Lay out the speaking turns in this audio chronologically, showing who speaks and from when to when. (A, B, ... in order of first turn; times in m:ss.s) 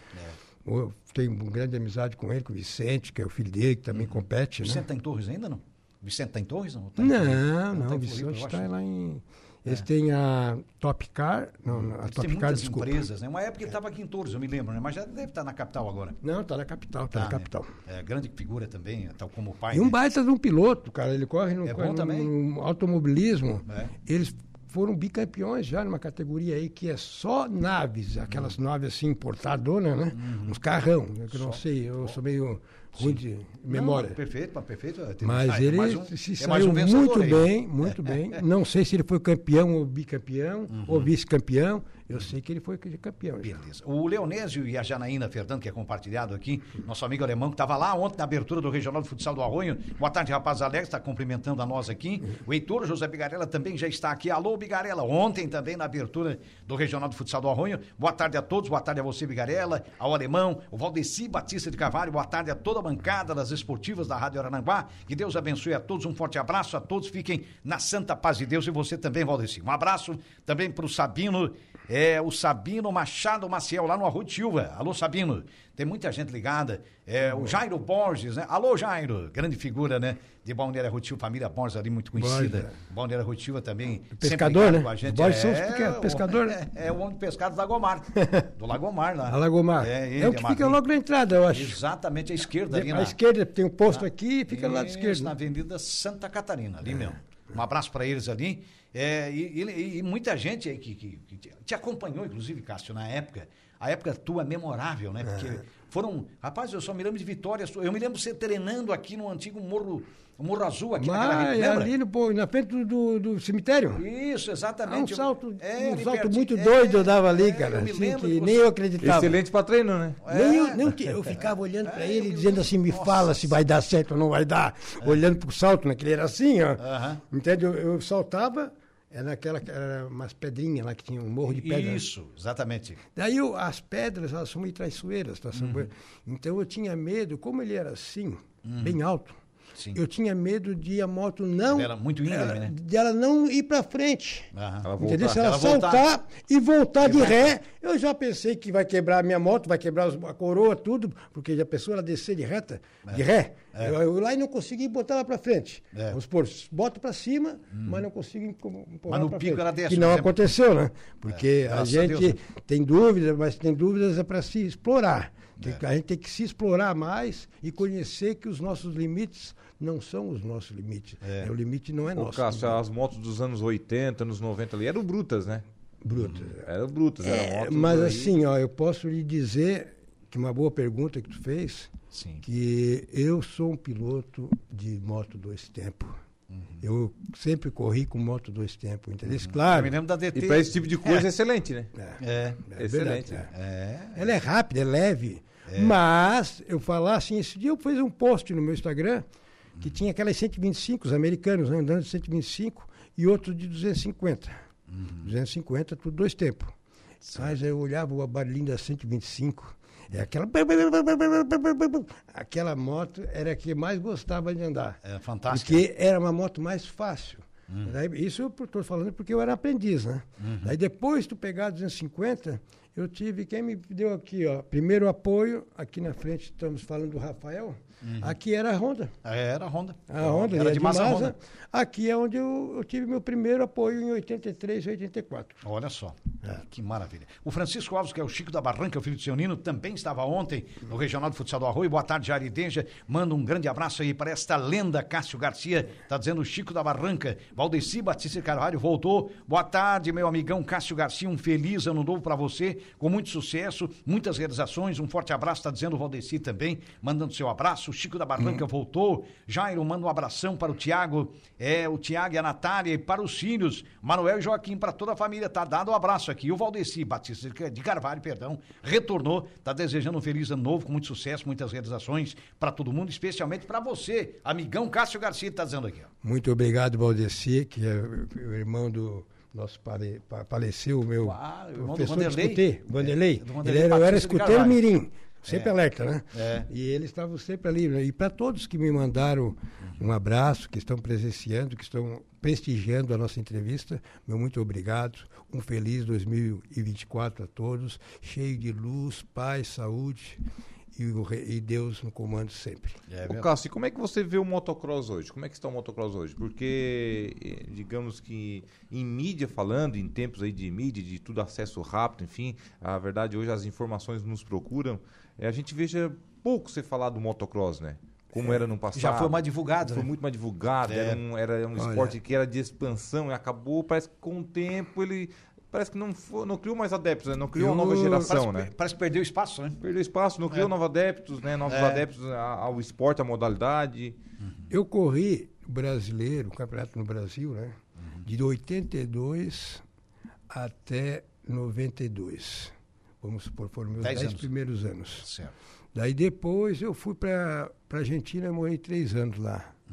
0:00.6-0:04.8 A
0:03.9-0:08.7 B
0:07.0-0:13.0 A
0:11.7-0:16.2 B
0:16.2-0:17.7 A
0:17.1-0:20.0 B
0:19.7-0:34.2 A
0:21.6-0:22.3 B
0:30.2-0:30.6 B
0:31.3-0:32.2 B
0:33.0-0:38.0 B
0:35.2-0:43.6 A
0:40.7-0:41.1 B
0:43.4-1:30.8 B
1:22.2-1:22.7 A
1:24.2-1:26.6 A
1:29.3-1:31.8 A
1:31.5-1:33.2 B
1:32.7-1:35.3 A
1:33.9-1:51.9 B
1:51.0-1:54.0 A
1:54.0-1:58.7 B
1:54.9-1:59.4 A
1:59.0-2:00.2 C
2:00.2-2:03.5 B
2:00.2-2:12.0 A
2:06.8-2:07.2 B
2:11.4-2:13.0 B
2:13.2-2:19.4 A
2:15.6-2:15.9 B
2:18.6-2:19.0 B
2:19.9-2:52.8 A
2:21.7-2:22.7 B
2:24.5-2:26.1 B
2:24.8-2:25.6 C
2:27.0-2:27.5 B
2:37.7-2:38.0 B
2:39.1-2:40.4 B
2:41.3-2:42.4 B
2:51.2-2:51.5 B
2:52.2-2:55.6 C
2:56.0-2:56.7 A
2:56.2-2:56.5 B
2:56.6-2:58.4 C
2:57.2-3:01.9 A
3:02.1-3:02.4 B
3:02.4-3:06.2 A
3:06.5-3:06.8 B
3:06.8-3:10.0 A
3:09.3-3:11.3 B
3:10.3-3:11.9 C
3:12.2-3:12.8 B
3:12.7-3:13.5 A
3:12.8-3:13.4 C
3:13.4-3:14.2 B
3:14.2-3:19.3 A
3:15.7-3:16.0 B
3:19.8-3:24.5 A
3:24.9-3:25.3 B
3:25.2-3:26.8 A
3:27.2-3:27.5 B
3:27.4-3:49.2 A
3:35.0-3:35.8 B
3:40.4-3:40.7 B
3:48.0-3:48.3 B
3:49.2-3:51.3 B
3:50.1-3:55.6 A
3:55.6-4:36.1 B
4:36.2-5:00.4 A
4:41.2-4:44.8 B
4:46.3-4:46.7 B
5:01.0-5:03.0 A
5:03.1-5:03.5 B
5:03.3-5:28.7 C
5:18.9-5:20.1 B
5:20.9-5:21.2 B
5:21.8-5:22.2 A
5:27.6-5:28.4 A
5:28.2-5:29.8 B
5:29.8-5:34.2 C
5:31.7-5:32.0 B
5:34.7-5:39.8 A
5:40.5-5:45.3 A
5:44.0-5:44.5 B
5:45.2-5:45.5 B
5:45.9-5:49.7 A